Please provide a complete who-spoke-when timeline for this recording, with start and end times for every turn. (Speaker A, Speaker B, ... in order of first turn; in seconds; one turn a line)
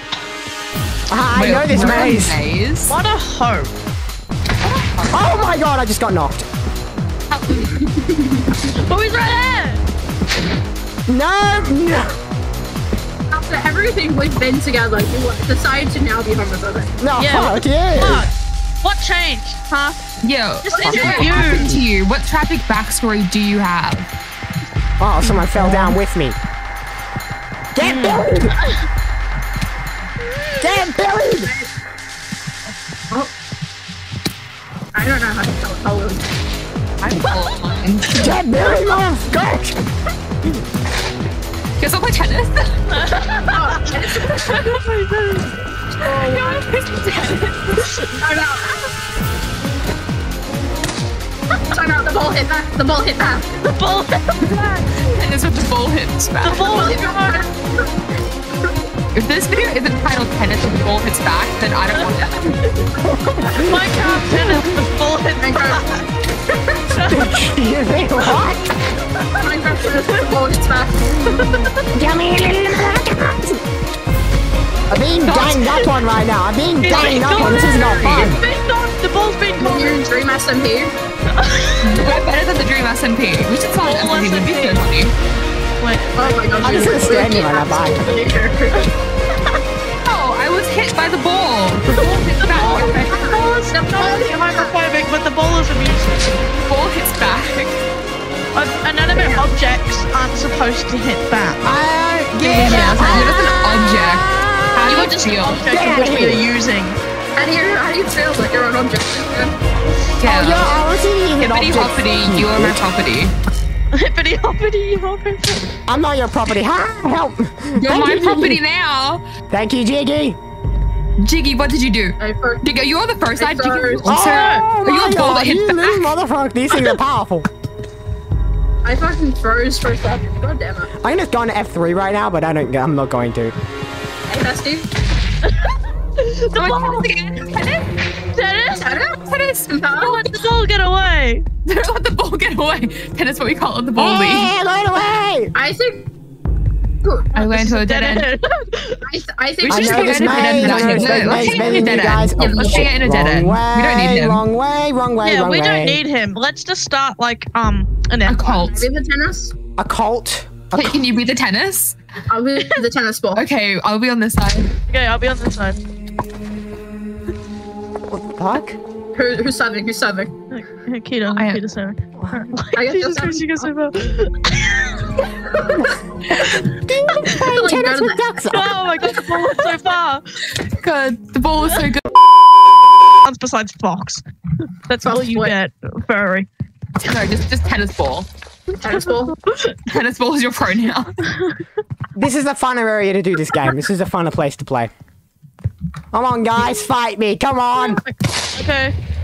Speaker A: 1.1-2.4
Speaker B: 1.4-3.0
Speaker C: 2.9-3.7
Speaker B: 4.6-5.5
Speaker A: 5.1-6.5
Speaker B: 7.3-7.8
Speaker D: 7.5-8.6
Speaker C: 8.8-9.8
Speaker A: 11.1-12.1
Speaker D: 13.3-17.0
Speaker A: 17.0-18.3
Speaker C: 17.2-20.0
Speaker B: 20.2-24.1
Speaker C: 20.6-21.8
Speaker D: 20.7-21.5
Speaker A: 20.8-21.9
Speaker A: 25.0-26.4
Speaker C: 25.2-26.0
Speaker A: 27.8-28.6
Speaker C: 27.8-28.9
Speaker A: 30.6-31.5
Speaker D: 31.4-31.7
Speaker D: 35.0-36.4
Speaker B: 37.0-38.3
Speaker A: 38.1-39.8
Speaker B: 41.8-42.8
Speaker C: 42.9-46.6
Speaker D: 43.5-44.6
Speaker B: 44.4-44.8
Speaker B: 46.1-48.0
Speaker C: 47.8-48.2
Speaker D: 48.2-48.8
Speaker D: 51.5-53.6
Speaker C: 53.6-55.2
Speaker B: 55.1-56.9
Speaker C: 56.4-57.5
Speaker D: 56.7-58.0
Speaker B: 59.1-62.6
Speaker C: 61.9-62.8
Speaker A: 63.0-64.7
Speaker D: 63.2-63.6
Speaker C: 63.5-66.0
Speaker D: 65.4-66.0
Speaker C: 66.9-67.5
Speaker A: 67.1-68.7
Speaker C: 69.2-70.3
Speaker D: 69.4-71.5
Speaker C: 71.2-71.9
Speaker A: 71.9-73.6
Speaker A: 74.9-78.4
Speaker C: 75.2-76.0
Speaker C: 76.8-80.1
Speaker D: 77.2-78.4
Speaker D: 79.6-81.0
Speaker C: 81.3-82.2
Speaker B: 81.8-85.1
Speaker C: 83.8-84.9
Speaker C: 85.8-87.2
Speaker D: 86.2-88.9
Speaker A: 86.6-88.3
Speaker C: 88.1-88.9
Speaker B: 90.0-93.6
Speaker A: 91.9-92.7
Speaker C: 92.0-96.5
Speaker D: 92.5-94.8
Speaker B: 96.6-97.8
Speaker C: 98.5-101.6
Speaker D: 99.1-99.5
Speaker A: 101.6-105.1
Speaker C: 102.4-103.4
Speaker B: 102.5-105.7
Speaker C: 104.8-107.0
Speaker A: 105.6-106.5
Speaker D: 107.4-109.6
Speaker B: 110.2-110.7
Speaker A: 110.2-112.8
Speaker B: 111.4-113.3
Speaker C: 113.9-115.7
Speaker A: 115.9-118.6
Speaker B: 117.8-119.3
Speaker A: 119.5-120.4
Speaker B: 121.2-126.1
Speaker D: 122.2-122.7
Speaker D: 123.4-124.1
Speaker A: 124.1-127.5
Speaker C: 124.2-124.7
Speaker D: 128.8-130.9
Speaker A: 131.0-133.6
Speaker D: 134.3-134.9
Speaker C: 135.4-137.1
Speaker B: 136.5-137.9
Speaker C: 138.3-139.1
Speaker D: 138.8-140.3
Speaker B: 139.2-139.8
Speaker C: 139.9-141.4
Speaker B: 141.7-144.5
Speaker A: 144.0-145.5
Speaker D: 145.6-146.1
Speaker B: 147.3-148.3
Speaker C: 147.4-149.0
Speaker D: 149.0-152.9
Speaker B: 149.6-154.4
Speaker A: 149.7-156.0
Speaker C: 155.2-158.6
Speaker B: 158.3-158.9
Speaker D: 158.4-159.5
Speaker A: 159.8-161.0
Speaker B: 160.7-162.0
Speaker D: 162.3-163.5
Speaker B: 163.3-164.7
Speaker C: 164.9-165.8
Speaker A: 168.1-168.8
Speaker D: 169.1-170.3
Speaker C: 170.5-175.2
Speaker B: 171.3-171.7
Speaker A: 172.2-172.6
Speaker D: 172.8-173.7
Speaker D: 175.5-175.9
Speaker A: 175.6-175.9
Speaker A: 176.5-178.8
Speaker D: 177.3-178.3
Speaker C: 177.3-177.6
Speaker C: 178.5-180.2
Speaker D: 179.0-179.4
Speaker B: 180.6-182.0
Speaker C: 183.2-184.2
Speaker C: 184.9-186.5
Speaker D: 185.1-185.6
Speaker B: 187.0-188.3
Speaker C: 188.7-189.8
Speaker D: 188.8-189.4
Speaker B: 189.9-191.3
Speaker C: 191.2-191.7
Speaker A: 192.2-194.9
Speaker A: 196.1-198.0
Speaker C: 197.7-198.9